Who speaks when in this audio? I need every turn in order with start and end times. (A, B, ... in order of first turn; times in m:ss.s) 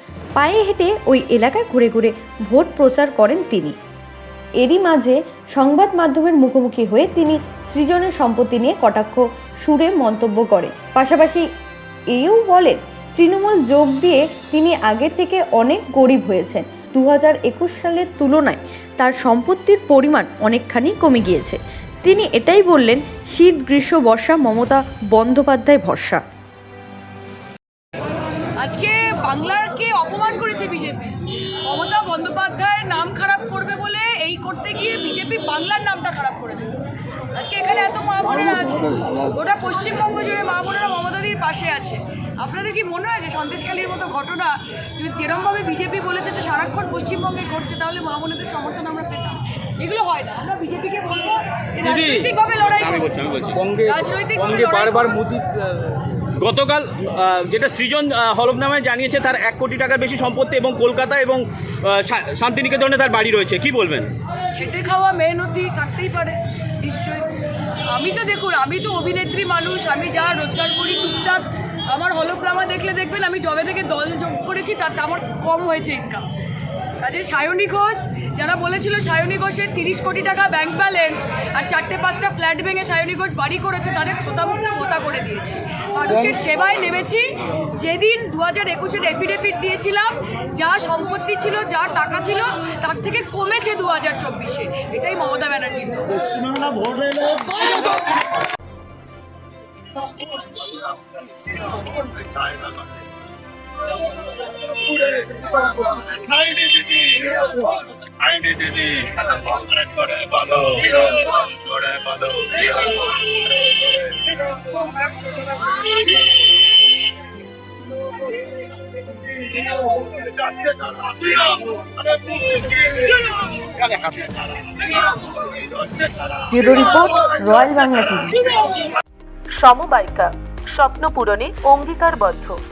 0:00.4-0:03.8 A
0:04.6-0:11.4 A
0:12.1-0:26.2 A
0:28.6-0:53.1 B
0:51.9-0:53.6 C
0:53.6-0:54.0 D
0:53.8-0:55.2 B
0:55.1-0:55.5 D
0:56.4-1:04.1 C
1:04.5-1:07.2 B
1:07.9-1:16.3 B
1:17.0-1:38.1 B
1:46.1-1:47.4 D
1:48.4-1:49.2 C
1:50.1-1:50.4 D
2:06.5-2:08.5 A
2:09.6-2:12.6 E